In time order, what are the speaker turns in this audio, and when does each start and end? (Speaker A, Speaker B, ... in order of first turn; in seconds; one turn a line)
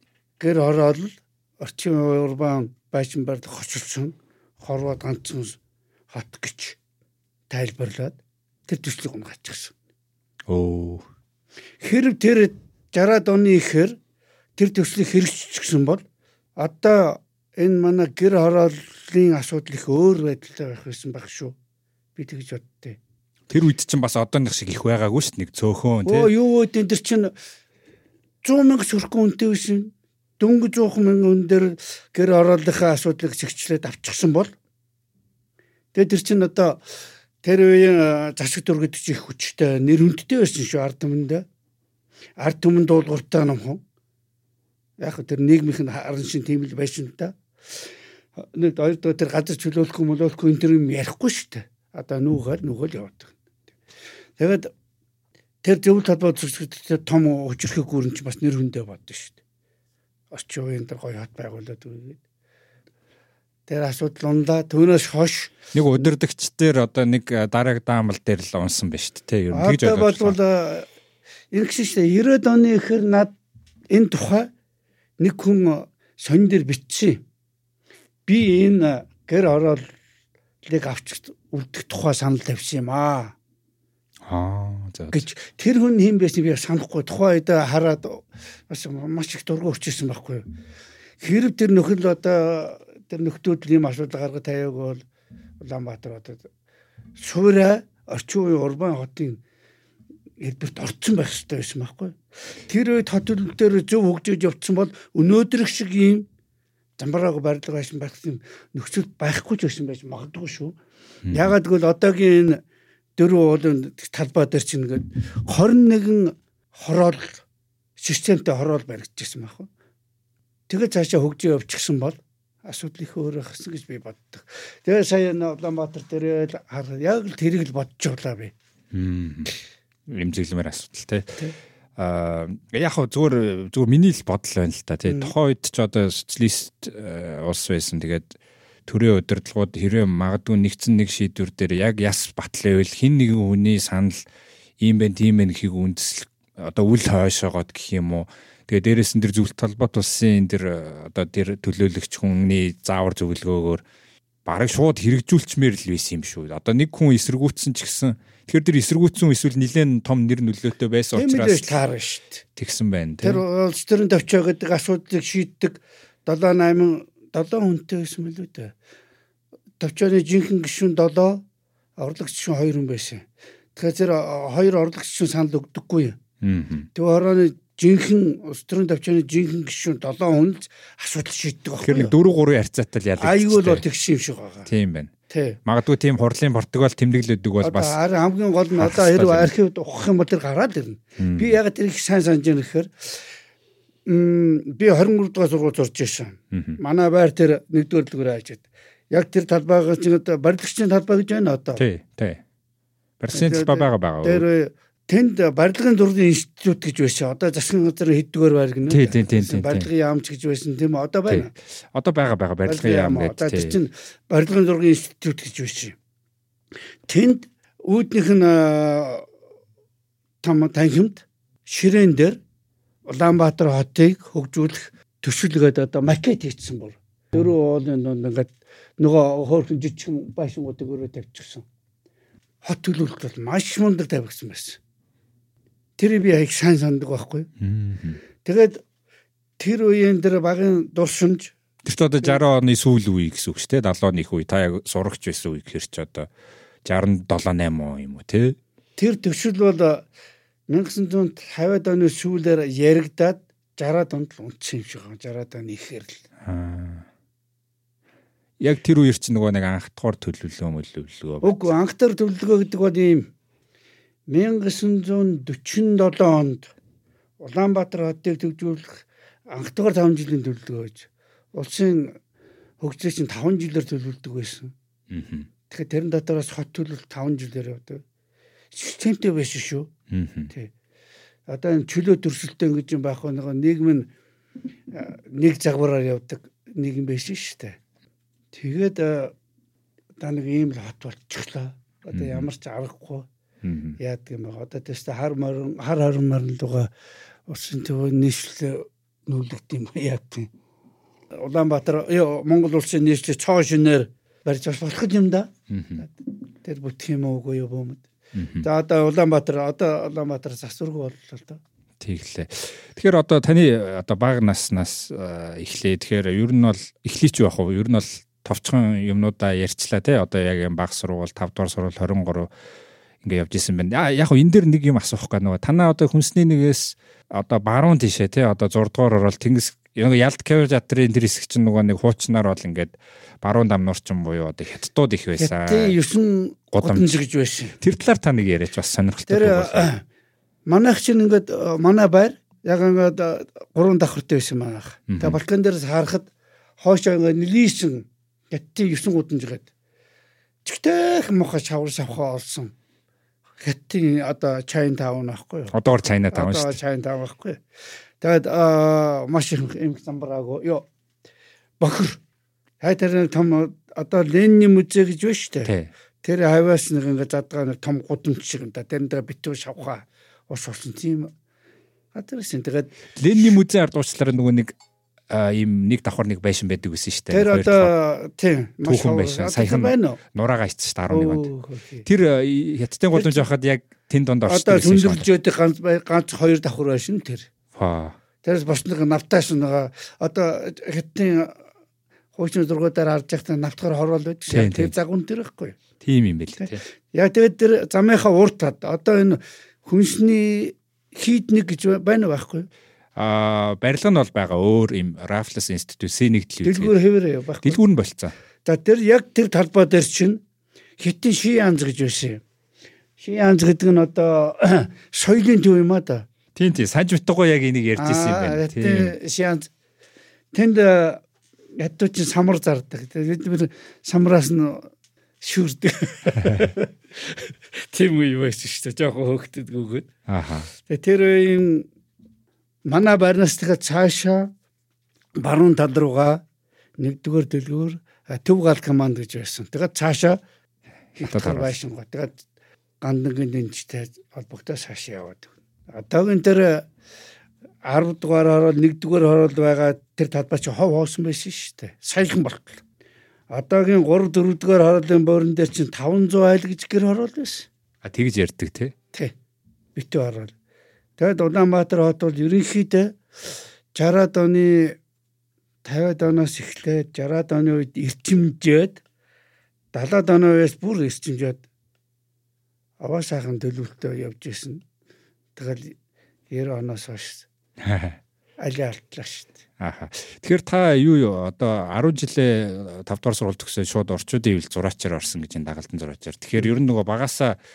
Speaker A: 0.4-5.6
Speaker A: 6.1-6.8
Speaker A: 7.5-9.7
Speaker B: 10.5-11.1
Speaker A: 11.8-14.0
Speaker A: 14.6-16.0
Speaker A: 16.6-21.6
Speaker A: 22.1-23.0
Speaker B: 23.5-26.3
Speaker A: 26.0-27.3
Speaker A: 28.4-34.5
Speaker A: 35.9-36.8
Speaker A: 37.4-41.4
Speaker A: 42.4-43.8
Speaker A: 45.0-47.4
Speaker A: 48.4-53.3
Speaker A: 54.4-54.7
Speaker A: 55.6-59.4
Speaker A: 60.3-62.2
Speaker A: 63.7-66.1
Speaker B: 65.7-70.4
Speaker A: 69.5-70.9
Speaker A: 71.5-73.3
Speaker A: 73.9-74.5
Speaker A: 75.2-77.2
Speaker A: 78.3-79.9
Speaker A: 80.7-83.3
Speaker B: 84.2-85.2
Speaker A: 85.1-90.4
Speaker A: 91.2-95.0
Speaker A: 95.6-96.5
Speaker A: 97.2-99.4
Speaker A: 100.4-106.2
Speaker A: 107.0-110.8
Speaker B: 111.2-111.5
Speaker A: 111.3-112.6
Speaker A: 113.2-117.4
Speaker A: 118.0-119.7
Speaker A: 120.7-128.5
Speaker B: 128.9-129.5
Speaker B: 130.1-131.4
Speaker B: 132.0-144.2
Speaker A: 135.1-135.3
Speaker B: 144.8-153.8
Speaker B: 154.4-161.7
Speaker A: 161.1-162.4
Speaker B: 162.6-163.4
Speaker A: 163.2-168.7
Speaker A: 169.8-171.4
Speaker A: 172.0-176.2
Speaker B: 176.4-176.9
Speaker A: 176.9-182.1
Speaker B: 181.8-183.8
Speaker A: 183.2-184.7
Speaker B: 184.7-185.1
Speaker A: 185.3-185.6
Speaker B: 185.6-188.0
Speaker A: 187.6-193.3
Speaker B: 188.8-189.5
Speaker B: 191.2-191.6
Speaker A: 194.1-201.8
Speaker B: 196.5-196.8
Speaker B: 201.8-202.4
Speaker B: 203.2-204.4
Speaker A: 203.3-211.5
Speaker B: 208.9-209.9
Speaker B: 211.3-213.8
Speaker A: 212.6-215.9
Speaker A: 217.1-219.2
Speaker A: 220.4-222.4
Speaker A: 223.1-231.6
Speaker A: 232.6-234.8
Speaker A: 236.0-237.5
Speaker B: 237.6-238.2
Speaker A: 238.4-238.8
Speaker A: 239.6-241.5
Speaker B: 241.8-246.3
Speaker B: 246.8-248.6
Speaker A: 249.0-250.1
Speaker A: 250.7-256.2
Speaker B: 256.4-257.0
Speaker B: 258.6-261.7
Speaker A: 261.4-263.3
Speaker A: 264.3-266.7
Speaker A: 267.4-272.1
Speaker A: 272.8-274.7
Speaker B: 275.1-275.5
Speaker A: 275.7-278.0
Speaker A: 278.7-279.9
Speaker B: 280.1-280.5
Speaker A: 281.5-284.1
Speaker A: 284.9-287.8
Speaker A: 288.5-289.3
Speaker A: 290.2-293.3
Speaker B: 292.1-292.5
Speaker B: 293.6-294.0
Speaker A: 294.0-296.9
Speaker A: 297.5-300.5
Speaker A: 301.4-308.0
Speaker B: 305.7-306.0
Speaker B: 308.3-308.6
Speaker A: 308.6-311.6
Speaker B: 312.0-322.5
Speaker B: 323.2-335.9
Speaker A: 335.4-337.8
Speaker B: 336.7-337.1
Speaker B: 337.8-339.9
Speaker A: 339.3-340.0
Speaker A: 340.7-346.3
Speaker B: 345.1-345.4
Speaker A: 346.8-349.7
Speaker A: 350.6-352.7
Speaker A: 353.6-355.8
Speaker B: 355.7-356.8
Speaker A: 356.3-357.6
Speaker A: 358.2-360.9
Speaker A: 361.8-362.2
Speaker A: 362.8-365.7
Speaker B: 365.6-365.9
Speaker A: 366.2-371.3
Speaker A: 372.1-373.6
Speaker B: 373.1-374.8
Speaker B: 375.3-377.9
Speaker A: 377.3-380.2
Speaker B: 378.8-381.5
Speaker A: 381.1-382.1
Speaker B: 382.0-385.3
Speaker A: 383.1-383.5
Speaker A: 384.4-387.5
Speaker B: 387.7-388.2
Speaker A: 388.4-391.5
Speaker A: 392.3-395.8
Speaker B: 394.5-394.9
Speaker B: 396.0-396.8
Speaker A: 396.6-402.7
Speaker B: 403.1-406.9
Speaker A: 406.6-407.8
Speaker B: 407.6-408.4
Speaker A: 408.6-410.4
Speaker A: 411.0-412.4
Speaker A: 413.2-416.2
Speaker B: 416.5-419.1
Speaker A: 418.0-419.7
Speaker A: 420.5-421.2
Speaker A: 421.8-430.1
Speaker B: 430.3-430.7
Speaker A: 430.9-431.9
Speaker A: 432.9-434.5
Speaker A: 435.4-436.4
Speaker A: 437.0-440.4
Speaker B: 441.2-441.7
Speaker A: 441.2-442.4
Speaker A: 443.0-446.9
Speaker A: 447.8-452.8
Speaker A: 453.5-457.7
Speaker B: 458.0-458.9
Speaker A: 459.9-460.5
Speaker A: 461.2-463.2
Speaker A: 463.9-465.0
Speaker A: 465.8-469.0
Speaker A: 469.9-471.6
Speaker A: 473.0-474.8
Speaker A: 475.6-476.0
Speaker A: 476.5-477.5
Speaker B: 477.8-478.2
Speaker A: 478.6-479.6
Speaker B: 479.8-487.6